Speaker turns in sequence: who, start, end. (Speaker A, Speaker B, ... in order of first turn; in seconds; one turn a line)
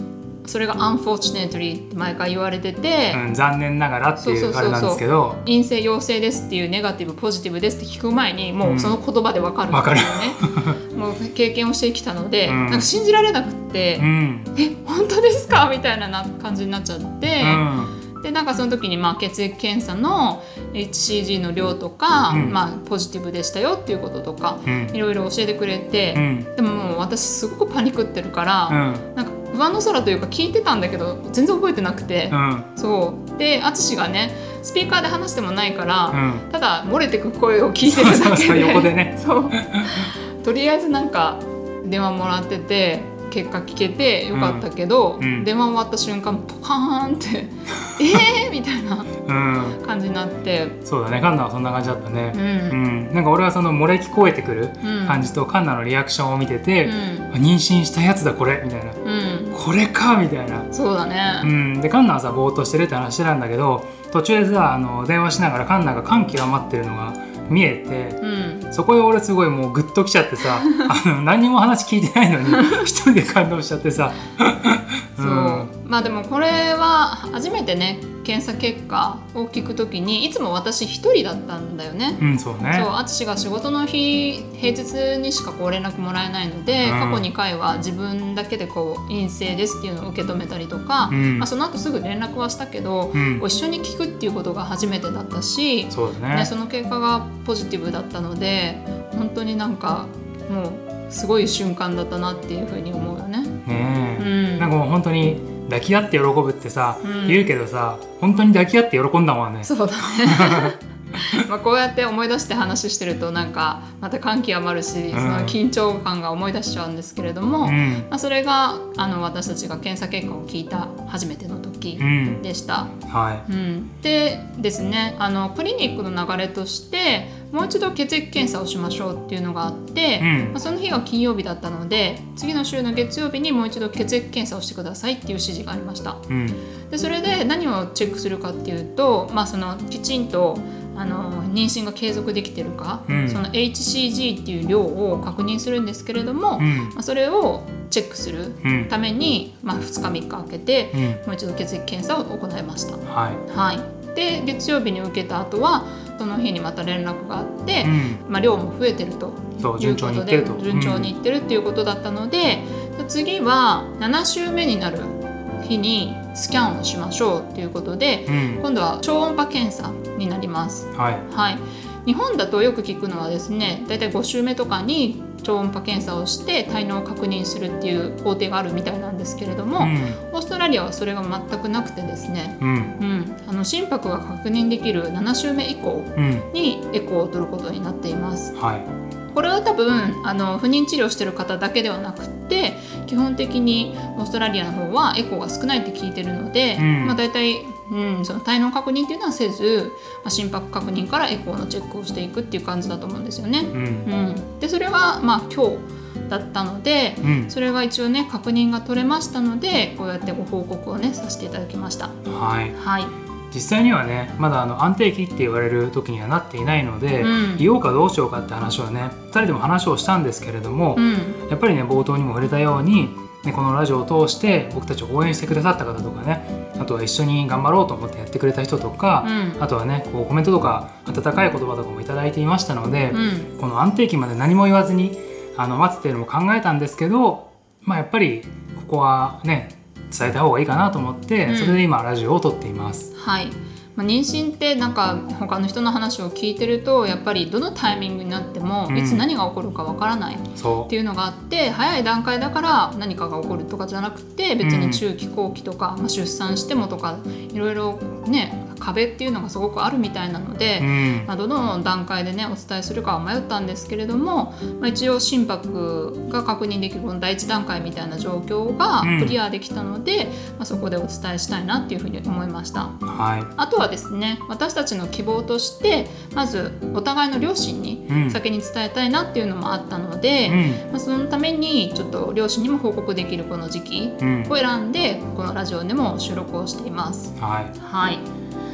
Speaker A: 0.4-3.2
Speaker B: 3.1-5.4
Speaker A: 4.2-17.7
Speaker B: 8.6-8.9
Speaker B: 9.7-10.8
Speaker B: 12.5-12.9
Speaker B: 14.0-14.5
Speaker B: 17.4-17.9
Speaker A: 18.2-49.1
Speaker B: 22.3-22.6
Speaker B: 24.7-24.9
Speaker B: 26.1-26.5
Speaker B: 28.7-29.1
Speaker B: 32.3-32.7
Speaker B: 36.1-36.4
Speaker B: 37.9-40.1
Speaker B: 44.3-44.7
Speaker B: 45.2-45.5
Speaker B: 49.3-49.8
Speaker A: 49.8-50.8
Speaker B: 50.8-59.0
Speaker A: 52.3-52.8
Speaker A: 54.8-55.2
Speaker A: 56.8-57.3
Speaker A: 59.0-59.6
Speaker B: 59.5-60.7
Speaker A: 60.7-61.5
Speaker B: 61.4-75.7
Speaker A: 68.2-68.7
Speaker A: 75.2-103.6
Speaker B: 82.2-82.9
Speaker B: 86.8-87.3
Speaker B: 91.1-91.5
Speaker B: 93.1-93.4
Speaker B: 95.9-96.5
Speaker B: 103.7-110.7
Speaker A: 104.2-104.7
Speaker A: 107.0-107.5
Speaker A: 109.7-136.2
Speaker B: 115.1-115.6
Speaker B: 117.6-118.1
Speaker B: 122.0-122.4
Speaker B: 123.1-123.5
Speaker B: 130.2-130.6
Speaker B: 136.3-136.6
Speaker A: 136.9-188.6
Speaker B: 143.1-143.4
Speaker B: 146.6-146.9
Speaker B: 148.6-148.9
Speaker B: 150.9-151.2
Speaker B: 153.1-153.4
Speaker B: 157.8-158.2
Speaker B: 159.6-161.1
Speaker B: 168.3-168.6
Speaker B: 170.9-171.3
Speaker B: 179.8-180.2
Speaker B: 182.6-183.0
Speaker B: 186.2-186.5
Speaker B: 188.6-188.9
Speaker A: 189.3-212.2
Speaker B: 196.8-197.2
Speaker B: 203.7-204.1
Speaker B: 207.2-207.5
Speaker B: 212.3-212.8
Speaker A: 212.8-213.1
Speaker B: 213.5-243.1
Speaker A: 217.2-217.7
Speaker A: 221.0-221.4
Speaker A: 229.2-229.6
Speaker A: 233.1-233.5
Speaker A: 241.5-241.8
Speaker A: 243.2-273.0
Speaker B: 248.9-249.2
Speaker B: 250.6-250.9
Speaker B: 254.6-255.0
Speaker B: 260.8-261.3
Speaker B: 269.0-269.4
Speaker B: 273.1-273.5
Speaker A: 273.6-288.2
Speaker B: 278.1-278.4
Speaker B: 280.5-280.8
Speaker B: 284.2-284.5
Speaker B: 287.4-287.7